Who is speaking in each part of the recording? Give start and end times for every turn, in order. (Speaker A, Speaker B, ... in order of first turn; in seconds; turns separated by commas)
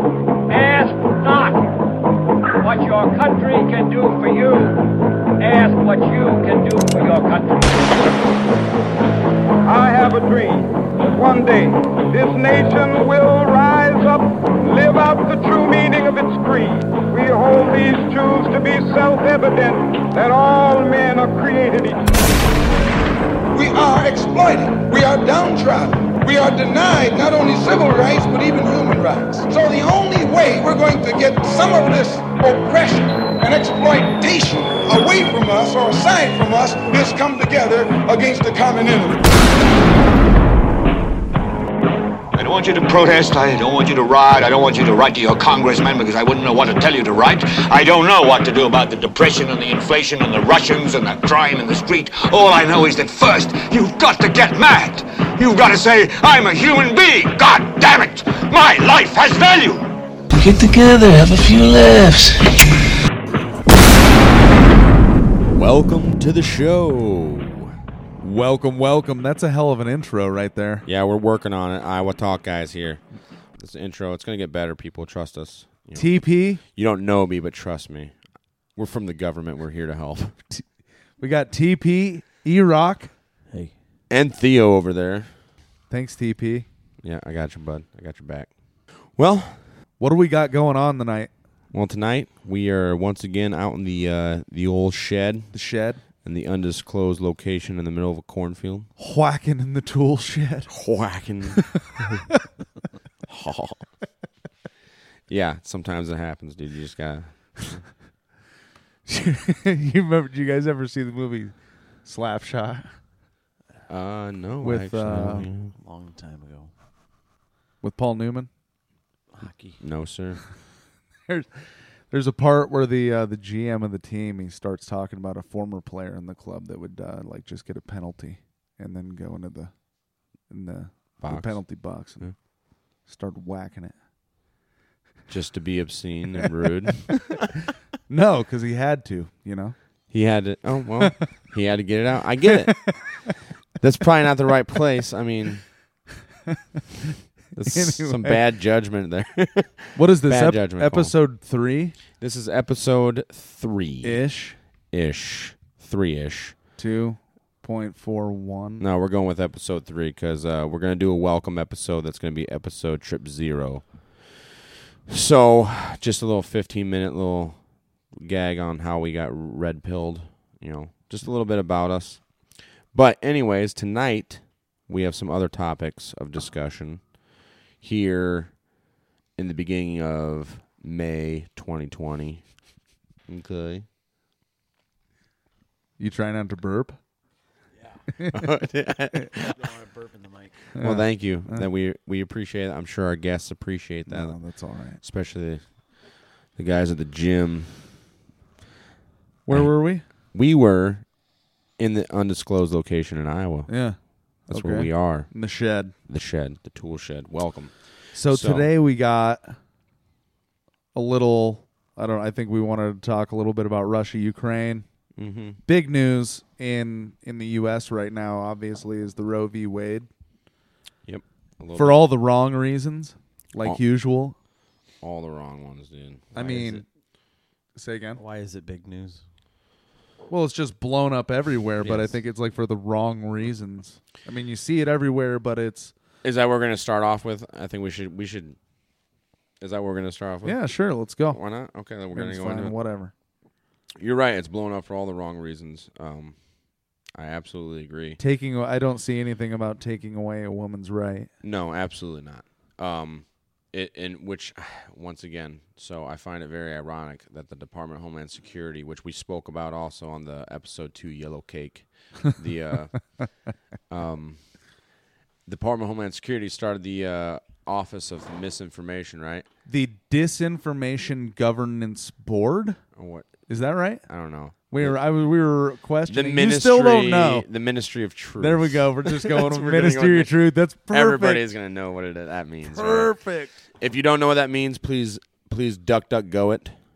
Speaker A: 0.5-1.7, Speaker A: 2.6-4.9, Speaker A: 5.4-8.1, Speaker B: 9.7-22.1, Speaker C: 23.5-39.2, Speaker D: 42.3-59.9, Speaker E: 60.3-62.5, Speaker F: 65.5-67.7, Speaker G: 68.2-70.8, Speaker F: 70.8-73.0, Speaker F: 73.6-78.2, Speaker G: 76.0-76.6, Speaker F: 78.8-80.4, Speaker G: 81.2-83.1, Speaker F: 84.1-85.3, Speaker G: 85.9-86.7, Speaker F: 87.0-88.5, Speaker F: 89.2-89.6, Speaker G: 90.0-91.3, Speaker F: 91.7-95.5, Speaker G: 95.5-96.0, Speaker F: 96.2-98.9, Speaker G: 99.0-100.7, Speaker F: 100.7-101.8, Speaker F: 103.3-103.8, Speaker F: 105.3-107.8, Speaker G: 109.1-112.9, Speaker F: 113.9-115.7, Speaker G: 114.6-115.5, Speaker H: 115.8-116.7, Speaker G: 117.8-118.5, Speaker H: 119.3-119.8, Speaker F: 119.8-120.4, Speaker G: 122.1-129.7, Speaker G: 130.5-132.3, Speaker F: 131.2-131.6, Speaker G: 133.1-133.9, Speaker F: 135.3-137.4, Speaker G: 138.1-139.8, Speaker F: 140.1-143.0, Speaker G: 142.5-143.3, Speaker F: 143.8-145.7, Speaker F: 147.5-151.1, Speaker G: 147.7-148.4, Speaker G: 149.9-152.0, Speaker F: 152.2-154.2, Speaker G: 154.0-154.6, Speaker F: 154.9-156.6, Speaker G: 156.8-158.8, Speaker F: 158.8-164.5, Speaker F: 165.1-167.6, Speaker F: 168.1-172.2, Speaker F: 172.9-177.0, Speaker F: 177.8-178.5, Speaker F: 179.4-182.4, Speaker F: 183.3-183.9, Speaker G: 186.0-187.0, Speaker H: 187.8-188.0, Speaker G: 188.2-188.4, Speaker F: 188.3-189.6, Speaker H: 189.4-190.7, Speaker G: 190.8-191.6, Speaker F: 190.8-194.4, Speaker G: 194.1-195.0, Speaker F: 195.0-195.6, Speaker F: 196.6-197.7, Speaker G: 199.5-200.1, Speaker F: 200.3-201.1, Speaker F: 201.8-203.7, Speaker G: 203.7-205.9, Speaker F: 204.5-205.3, Speaker F: 206.1-207.8, Speaker G: 208.1-209.6, Speaker F: 208.3-208.7, Speaker G: 210.9-214.9, Speaker F: 215.2-215.6, Speaker G: 215.7-220.1, Speaker F: 221.1-222.0, Speaker G: 221.8-224.4, Speaker F: 225.0-226.5, Speaker G: 226.3-226.8, Speaker H: 226.4-226.8, Speaker G: 227.8-228.2, Speaker H: 228.2-229.2, Speaker G: 230.3-235.9, Speaker F: 236.2-238.6, Speaker F: 239.6-240.6, Speaker G: 240.4-241.4, Speaker F: 241.3-242.8, Speaker G: 242.1-243.1, Speaker F: 244.0-246.4, Speaker F: 247.2-248.2, Speaker G: 248.2-251.3, Speaker F: 251.4-263.1, Speaker F: 263.9-264.4, Speaker F: 265.5-269.5, Speaker G: 269.7-272.8, Speaker F: 272.9-273.3, Speaker G: 273.5-274.1, Speaker F: 274.1-275.0, Speaker G: 274.7-277.5, Speaker F: 276.1-280.4, Speaker G: 278.4-281.5, Speaker F: 280.9-283.1, Speaker G: 282.6-283.5, Speaker F: 283.8-286.8